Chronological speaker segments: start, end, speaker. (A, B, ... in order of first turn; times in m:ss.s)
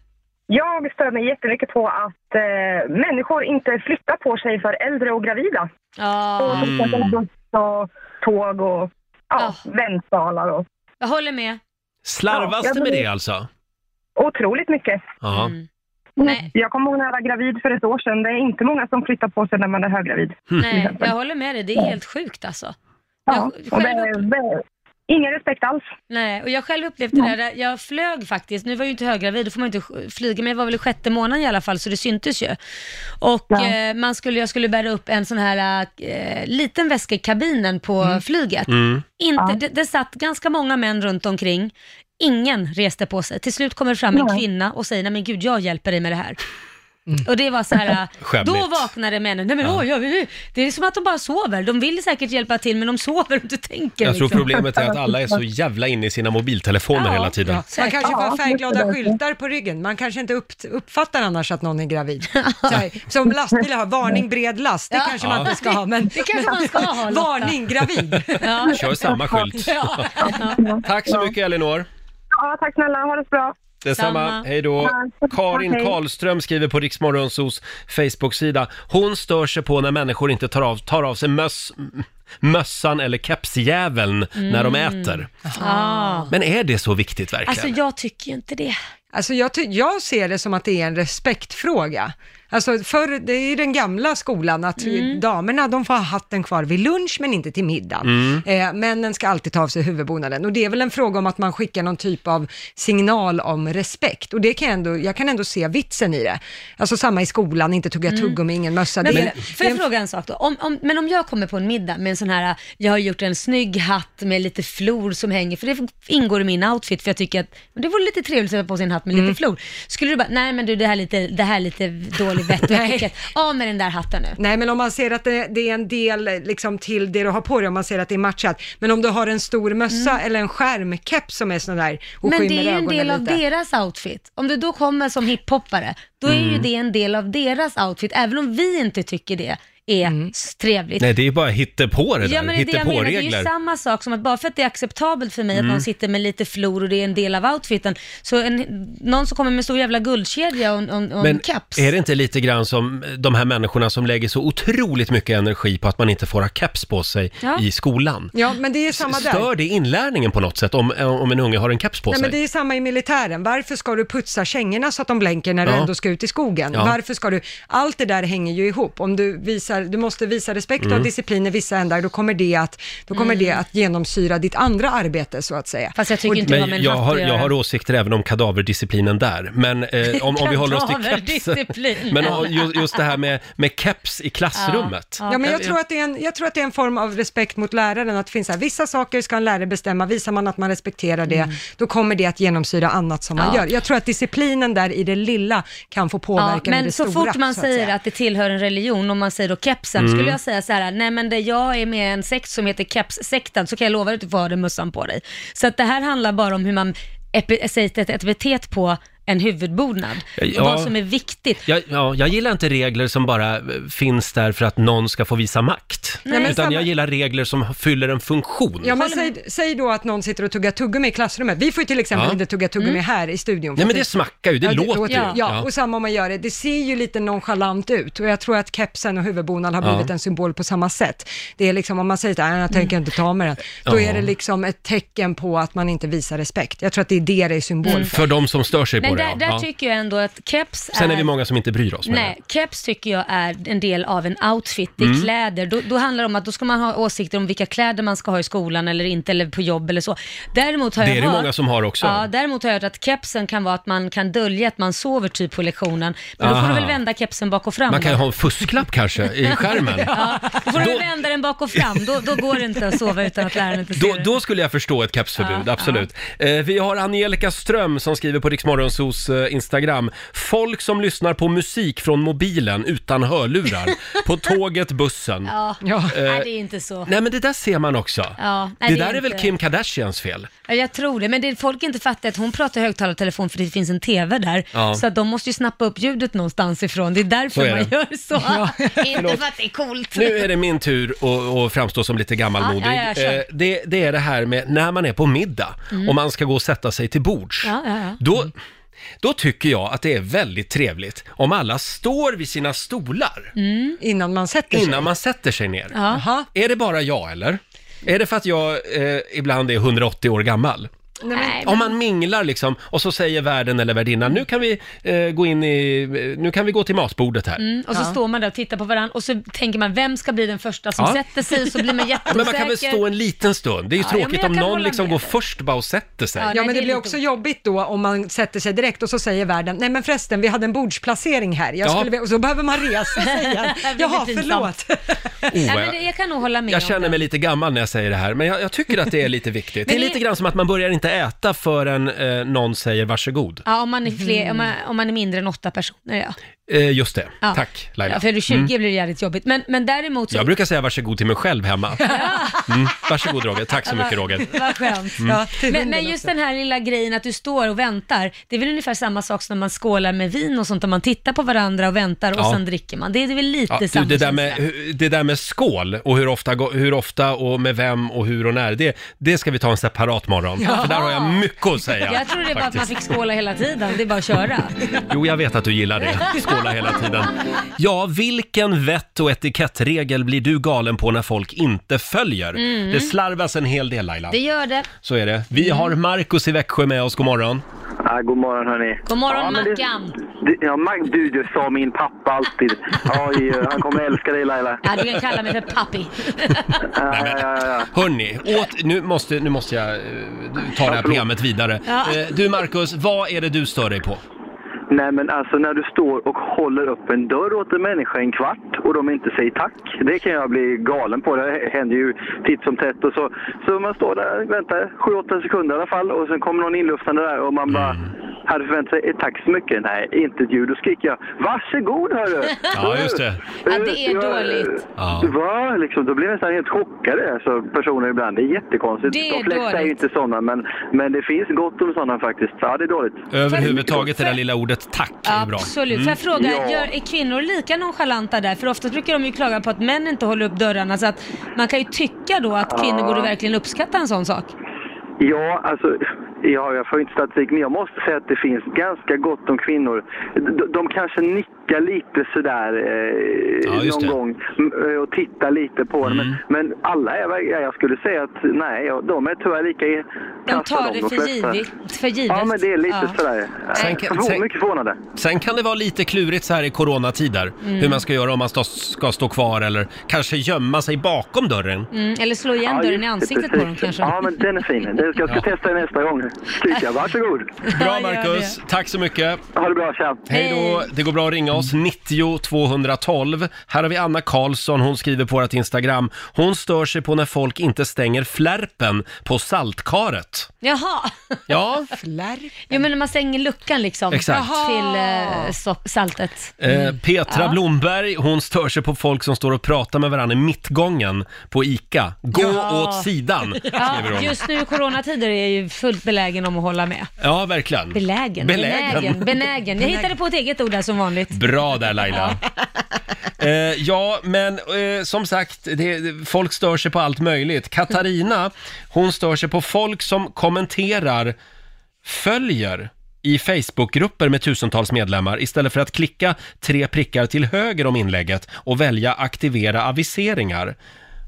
0:00.5-0:05.7 A
0:06.0-0:06.7 B
0:06.4-0:10.6 A
0:06.5-0:07.2 C
0:11.0-0:11.6 B
0:12.1-0:13.5 C
0:12.3-0:13.0 A
0:14.2-0:15.0 A
0:15.2-0:15.5 C
0:15.3-0:15.6 B
0:16.2-0:16.5 B
0:16.2-0:21.1 A
0:20.6-0:22.8 B
0:23.3-0:25.9 A
0:23.3-0:24.2 B
0:26.1-0:32.6 B
0:33.2-0:46.4 B
0:38.7-0:39.0 C
0:47.2-0:54.5 B
0:48.2-0:48.9 C
0:54.0-0:57.6 C
0:54.6-0:55.4 A
0:57.0-0:58.3 B
0:57.4-1:08.6 D
0:58.1-0:59.2 A
1:02.4-1:02.8 B
1:04.9-1:07.6 B
1:05.2-1:05.5 C
1:08.4-1:10.6 B
1:08.7-1:10.1 C
1:10.2-1:11.3 A
1:10.8-1:11.9 C
1:12.4-1:13.6 A
1:13.8-1:25.3 C
1:14.0-1:14.4 B
1:14.8-1:16.0 A
1:24.4-1:26.3 B
1:25.4-1:26.3 D
1:26.3-1:27.7 C
1:27.5-1:28.8 B
1:29.1-1:49.8 D
1:34.8-1:35.2 B
1:38.0-1:38.4 C
1:48.1-1:48.4 B
1:49.0-2:04.4 B
1:59.1-1:59.4 D
2:02.6-2:03.1 D
2:04.4-2:13.4 D
2:09.9-2:10.2 B
2:12.2-2:21.1 B
2:16.3-2:16.7 C
2:20.0-2:20.3 D
2:21.0-2:23.5 C
2:22.2-2:31.9 B
2:25.5-2:25.8 C
2:31.2-2:38.3 C
2:38.3-2:39.5 D
2:38.9-2:42.4 C
2:42.1-2:56.5 D
2:45.6-2:45.9 C
2:50.8-2:51.1 C
2:53.1-2:53.6 B
2:56.0-2:57.5 B
2:56.4-3:05.8 C
3:00.1-3:03.0 B
3:04.6-3:05.6 B
3:05.3-3:17.9 D
3:11.3-3:11.5 B
3:13.4-3:13.7 B
3:16.4-3:31.6 B
3:20.0-3:20.4 C
3:30.4-3:30.9 C
3:31.6-3:39.0 C
3:36.3-3:36.7 B
3:36.3-3:36.9 D
3:38.8-3:44.1 D
3:38.9-3:39.4 B
3:43.8-3:45.7 C
3:44.6-3:58.1 D
3:45.1-3:45.4 B
3:49.8-3:50.1 C
3:53.9-3:54.3 C
3:57.8-3:58.1 B
3:58.0-3:59.7 C
3:59.0-4:01.3 B
4:00.9-4:02.3 C
4:02.1-4:11.5 B
4:05.0-4:05.3 C
4:11.0-4:12.2 C
4:12.0-4:18.3 B
4:16.4-4:17.0 C
4:17.9-4:21.0 C
4:20.1-4:24.3 B
4:24.0-4:35.5 C
4:25.4-4:26.1 B
4:35.5-4:37.1 B
4:35.8-4:36.2 D
4:36.1-4:36.5 C
4:37.1-4:40.5 C
4:38.4-4:39.5 B
4:40.7-4:50.5 B
4:44.7-4:45.0 C
4:47.5-4:47.9 C
4:48.4-4:49.1 D
4:49.2-4:49.4 C
4:50.2-4:58.5 C
4:52.6-4:53.4 B
4:57.6-4:58.2 B
4:59.2-5:03.5 C
5:03.6-5:04.0 B
5:04.0-5:05.1 D
5:04.7-5:06.0 C
5:05.9-5:06.3 B
5:06.1-5:06.5 D
5:06.5-5:10.9 C
5:11.2-5:11.6 D
5:11.3-5:11.9 B
5:11.6-5:17.6 C
5:17.6-5:23.0 B
5:22.3-5:26.5 C
5:24.0-5:25.3 B
5:26.4-5:27.2 B
5:26.5-5:35.0 D
5:31.8-5:32.1 C
5:33.2-5:34.7 B
5:35.5-5:36.0 C
5:35.6-5:37.2 B
5:36.7-5:43.6 C
5:39.9-5:40.2 B
5:43.7-5:46.4 B
5:44.2-5:44.6 D
5:46.7-5:48.7 C
5:47.4-5:50.5 B
5:50.3-5:54.6 C
5:52.1-5:52.7 B
5:53.8-6:04.6 B
5:54.8-5:56.3 D
6:03.7-6:12.9 C
6:10.7-6:14.8 B
6:15.1-6:24.4 C
6:22.6-6:23.1 B
6:24.3-6:24.9 B
6:25.0-6:27.6 C
6:25.6-6:26.0 B
6:28.0-6:34.8 E
6:29.1-6:30.2 B
6:34.8-6:36.8 B
6:36.9-6:37.9 E
6:37.1-6:44.2 C
6:40.8-6:41.3 E
6:41.9-6:42.3 B
6:44.9-7:13.3 E
6:57.7-6:58.1 C
7:02.7-7:03.4 C
7:03.7-7:04.8 B
7:05.0-7:05.3 C
7:09.1-7:10.0 B
7:13.3-7:16.2 C
7:13.5-7:14.4 B
7:15.3-7:24.5 B
7:16.3-7:16.9 E
7:22.7-7:23.3 E
7:25.2-7:41.6 E
7:33.6-7:34.2 C
7:36.0-7:36.4 C
7:40.5-7:43.2 B
7:42.3-7:45.0 E
7:43.8-7:44.0 B
7:43.8-7:44.5 C
7:45.2-7:51.9 C
7:47.6-7:48.0 B
7:51.9-7:54.5 B
7:52.6-7:57.6 E
7:57.7-7:58.6 B
7:57.7-7:59.4 C
7:59.5-8:00.3 E
8:00.3-8:10.5 C
8:00.3-8:00.9 B
8:10.6-8:11.4 B
8:11.5-8:11.9 C
8:11.9-8:12.9 D
8:12.7-8:16.6 B
8:14.1-8:14.6 C
8:14.3-8:15.6 D
8:16.6-8:24.4 C
8:17.3-8:17.6 B
8:22.4-8:23.1 B
8:23.7-8:27.1 B
8:27.2-8:29.3 C
8:27.9-8:31.4 B
8:29.8-8:30.1 D
8:31.3-8:32.4 C
8:32.0-8:32.4 B
8:33.4-8:41.4 C
8:42.0-8:50.8 C